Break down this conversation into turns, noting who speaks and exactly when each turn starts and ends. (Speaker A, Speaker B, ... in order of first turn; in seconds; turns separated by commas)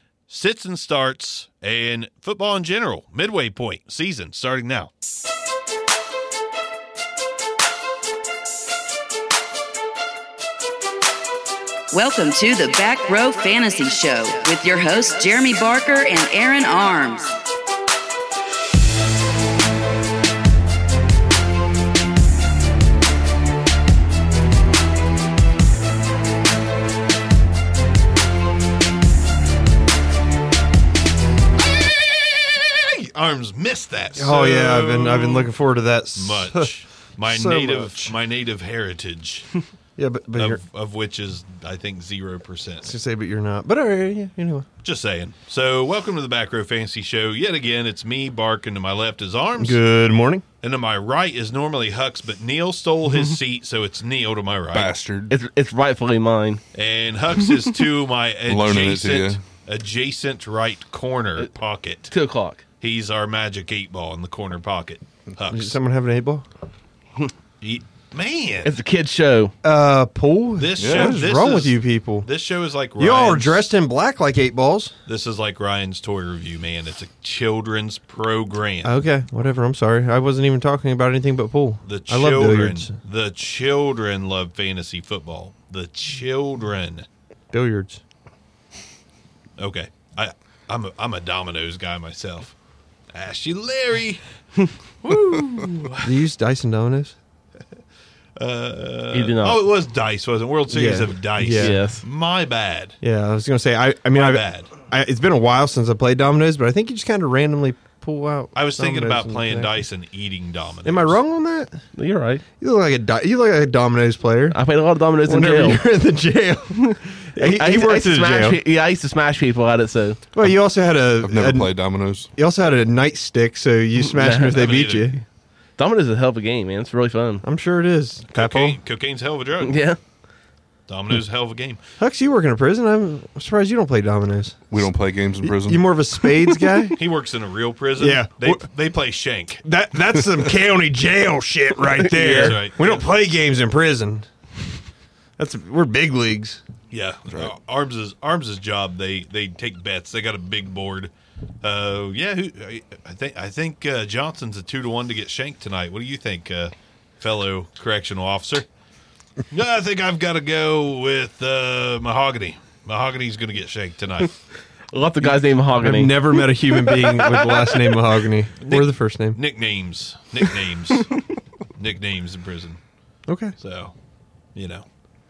Speaker A: 0.3-4.9, Speaker B: 11.9-17.4, Speaker A: 31.6-35.5, Speaker C: 34.1-36.7, Speaker A: 36.1-39.5, Speaker C: 37.2-38.1, Speaker C: 40.0-40.6, Speaker A: 40.3-42.9, Speaker C: 42.8-44.7, Speaker A: 44.8-49.8, Speaker C: 49.6-50.4, Speaker A: 50.6-54.9, Speaker D: 54.7-55.3, Speaker E: 55.3-56.6, Speaker A: 56.7-62.1, Speaker D: 58.5-59.4, Speaker E: 62.1-62.6, Speaker A: 62.8-65.8, Speaker C: 65.5-66.4, Speaker A: 67.6-68.7, Speaker E: 68.6-69.5, Speaker C: 69.6-72.3, Speaker A: 70.6-73.7, Speaker D: 70.8-71.2, Speaker C: 73.0-74.9, Speaker A: 75.0-78.9, Speaker C: 78.8-82.9, Speaker A: 81.8-87.0, Speaker C: 87.5-88.0, Speaker A: 89.6-92.5, Speaker A: 93.1-94.2, Speaker A: 95.0-96.1, Speaker C: 96.0-97.1, Speaker A: 98.4-103.0, Speaker E: 99.1-99.6, Speaker C: 100.7-101.8, Speaker E: 101.5-102.0, Speaker C: 103.0-109.7, Speaker A: 104.1-104.7, Speaker A: 108.5-111.2, Speaker C: 110.8-111.8, Speaker E: 112.0-112.4, Speaker C: 112.6-114.6, Speaker E: 114.5-115.8, Speaker C: 115.2-118.6, Speaker E: 117.3-120.2, Speaker C: 120.3-121.7, Speaker D: 121.2-122.3, Speaker C: 122.3-125.2, Speaker E: 123.9-124.7, Speaker A: 124.5-125.2, Speaker E: 125.8-127.4, Speaker C: 127.4-128.8, Speaker A: 128.3-129.8, Speaker E: 129.6-130.0, Speaker A: 130.9-131.8, Speaker C: 132.0-134.9, Speaker D: 134.7-135.8, Speaker C: 135.4-137.0, Speaker E: 136.3-136.9, Speaker A: 136.9-139.6, Speaker C: 138.0-138.6, Speaker C: 139.6-144.3, Speaker E: 141.8-142.6, Speaker A: 142.2-143.1, Speaker C: 145.4-146.6, Speaker A: 146.9-158.7, Speaker A: 159.5-164.3, Speaker E: 164.9-168.1, Speaker C: 165.2-169.4, Speaker A: 168.6-171.1, Speaker A: 171.8-172.8, Speaker C: 173.3-173.5, Speaker A: 173.6-173.9, Speaker A: 174.5-174.8